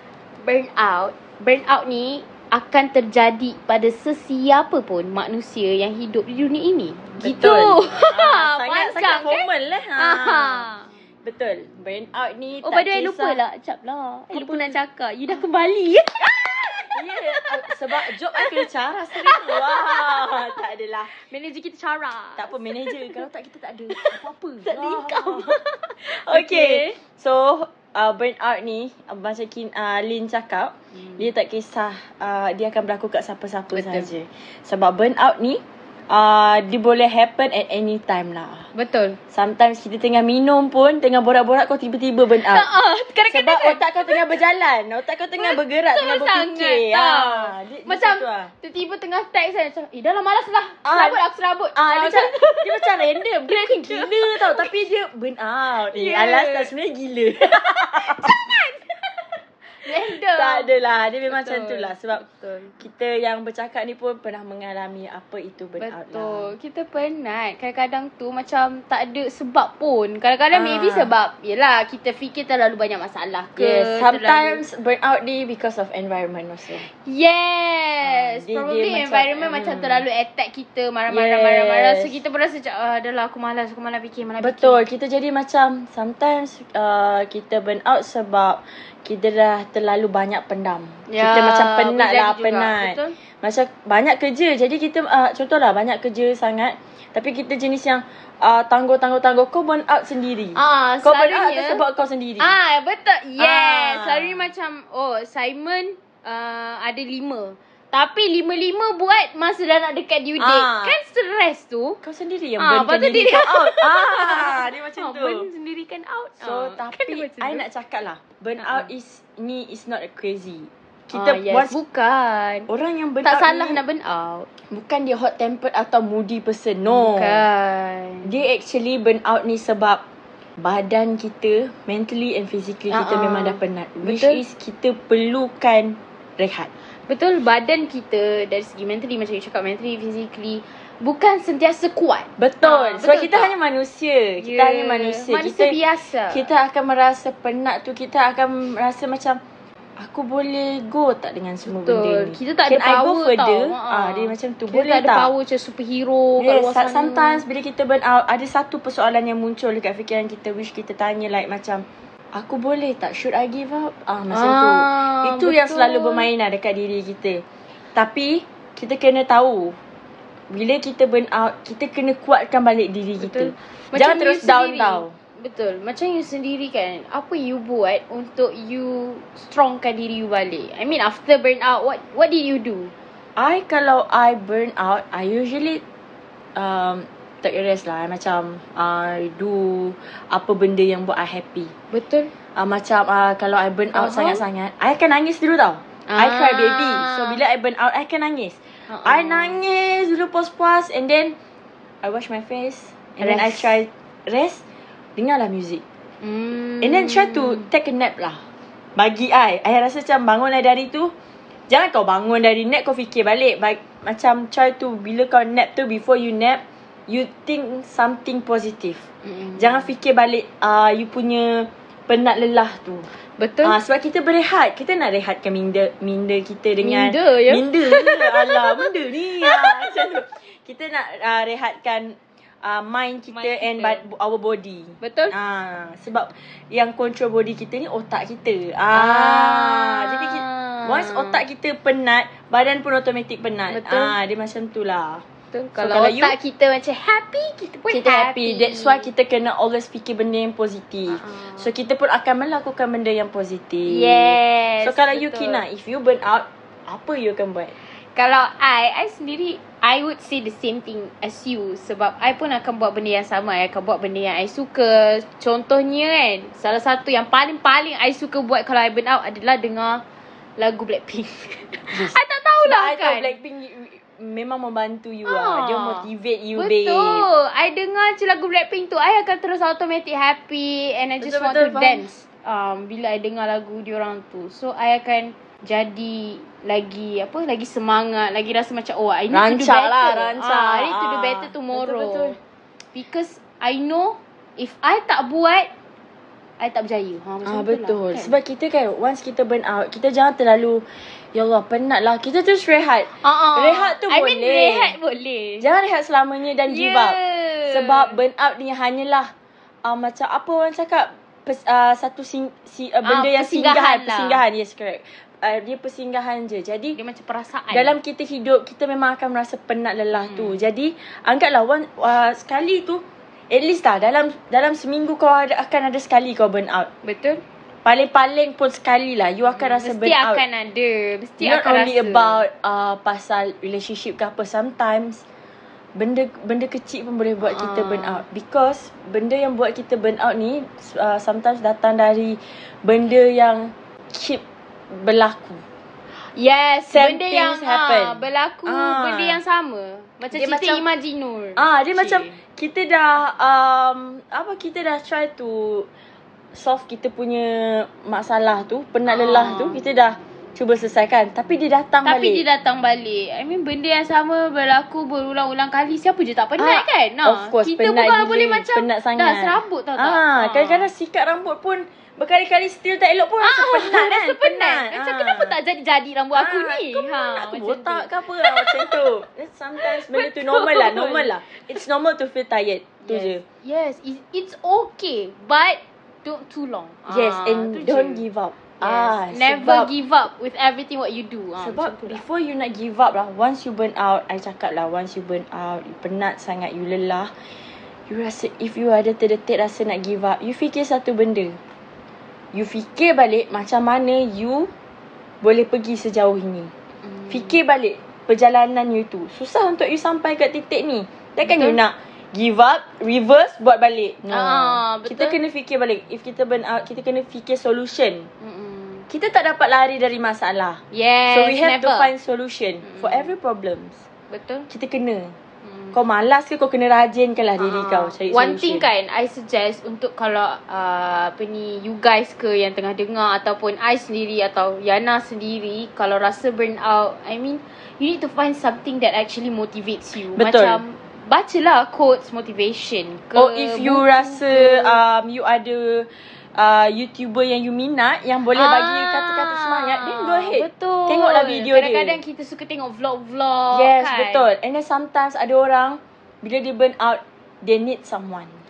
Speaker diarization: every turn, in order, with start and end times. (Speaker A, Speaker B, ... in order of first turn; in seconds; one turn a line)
Speaker A: 0.4-10.9
Speaker B: 7.2-10.7
Speaker B: 11.2-13.4
Speaker A: 12.6-17.5
Speaker B: 14.3-15.4
Speaker B: 16.9-21.1
Speaker A: 18.0-18.6
Speaker A: 19.1-20.5
Speaker A: 21.1-23.2
Speaker B: 22.4-25.5
Speaker A: 23.9-27.0
Speaker B: 26.1-38.7
Speaker A: 30.9-31.3
Speaker A: 33.7-34.1
Speaker A: 38.7-39.2
Speaker B: 39.3-42.7
Speaker A: 42.3-44.4
Speaker B: 43.3-48.5
Speaker A: 45.4-52.9
Speaker B: 50.8-51.2
Speaker B: 51.8-58.3
Speaker A: 53.5-54.7
Speaker A: 55.9-56.7
Speaker A: 57.5-60.8
Speaker B: 59.9-62.2
Speaker A: 61.3-62.8
Speaker B: 62.8-66.5
Speaker A: 65.8-74.6
Speaker B: 70.5-71.1
Speaker B: 73.6-76.8
Speaker A: 76.7-84.8
Speaker B: 78.0-80.0
Speaker B: 81.1-82.1
Speaker B: 84.4-102.5
Speaker A: 91.1-93.2
Speaker A: 100.5-101.8
Speaker A: 102.4-112.0
Speaker B: 103.4-104.5
Speaker B: 110.4-111.0
Speaker B: 112.0-115.5
Speaker A: 112.6-117.7
Speaker B: 116.4-121.8
Speaker A: 118.6-118.9
Speaker A: 121.1-122.7
Speaker B: 122.7-123.8
Speaker A: 123.2-124.5
Speaker B: 124.6-127.4
Speaker A: 126.9-128.3
Speaker B: 128.2-130.0
Speaker B: 130.6-136.7
Speaker A: 132.9-134.4
Speaker A: 137.1-143.5
Speaker B: 142.4-145.8
Speaker A: 144.4-146.5
Speaker B: 146.3-149.4
Speaker B: 150.0-155.3
Speaker A: 151.7-157.4
Speaker B: 156.4-167.4
Speaker A: 164.3-166.3
Speaker B: 167.9-169.8
Speaker B: 170.5-175.2
Speaker A: 173.2-182.9
Speaker B: 183.4-185.8
Speaker B: 186.6-191.7
Speaker A: 191.9-192.3
Speaker B: 192.6-201.4
Speaker A: 193.9-194.4
Speaker A: 196.1-197.4
Speaker A: 198.9-199.6
Speaker B: 202.0-204.6
Speaker A: 203.2-203.7
Speaker B: 205.2-205.8
Speaker A: 206.2-207.7
Speaker B: 206.8-208.4
Speaker B: 209.0-211.1
Speaker B: 211.7-223.1
Speaker A: 219.3-219.9
Speaker A: 223.4-223.8
Speaker B: 223.6-245.2
Speaker A: 226.8-229.9
Speaker A: 233.3-234.0
Speaker A: 235.0-235.3
Speaker A: 238.9-241.4
Speaker A: 243.7-244.2
Speaker A: 245.5-249.1
Speaker B: 245.8-246.3
Speaker B: 247.9-257.7
Speaker A: 251.1-251.7
Speaker A: 253.9-255.6
Speaker A: 258.0-270.0
Speaker A: 270.6-273.3
Speaker B: 271.9-277.3
Speaker A: 275.3-292.4
Speaker B: 281.2-282.1
Speaker B: 289.3-292.4
Speaker A: 292.9-295.7
Speaker A: 296.6-298.4
Speaker B: 297.4-304.9
Speaker A: 303.1-305.7
Speaker B: 305.6-307.2
Speaker A: 306.7-308.2
Speaker B: 307.7-309.3
Speaker B: 309.8-317.0
Speaker A: 313.0-314.4
Speaker A: 316.9-318.0
Speaker B: 317.7-326.9
Speaker A: 320.1-320.6
Speaker A: 327.0-327.4
Speaker B: 327.9-330.4
Speaker A: 329.5-332.4
Speaker B: 331.4-335.2
Speaker B: 336.0-345.6
Speaker A: 337.4-338.2
Speaker A: 346.2-352.4
Speaker B: 346.9-349.4
Speaker B: 350.3-350.8
Speaker B: 351.6-355.9
Speaker B: 356.5-362.4
Speaker A: 359.1-359.8
Speaker A: 362.0-370.9
Speaker B: 366.6-375.6
Speaker A: 373.4-379.0
Speaker B: 376.4-383.4
Speaker A: 379.8-381.6
Speaker A: 383.0-388.2
Speaker B: 387.1-389.9
Speaker A: 388.8-392.2
Speaker B: 391.6-397.3
Speaker B: 398.1-401.6
Speaker B: 402.5-404.7
Speaker B: 405.4-406.7
Speaker A: 407.0-407.6
Speaker B: 407.3-418.3
Speaker A: 411.4-411.8
Speaker A: 414.3-415.4
Speaker A: 418.4-419.1
Speaker B: 419.1-424.0
Speaker A: 420.9-422.1
Speaker A: 422.8-423.3
Speaker A: 424.3-424.7
Speaker B: 424.7-425.4
Speaker A: 425.6-426.0
Speaker B: 425.9-428.9
Speaker A: 427.6-445.0
Speaker B: 440.3-440.8
Speaker B: 443.4-452.2
Speaker A: 448.5-454.5
Speaker B: 453.7-458.6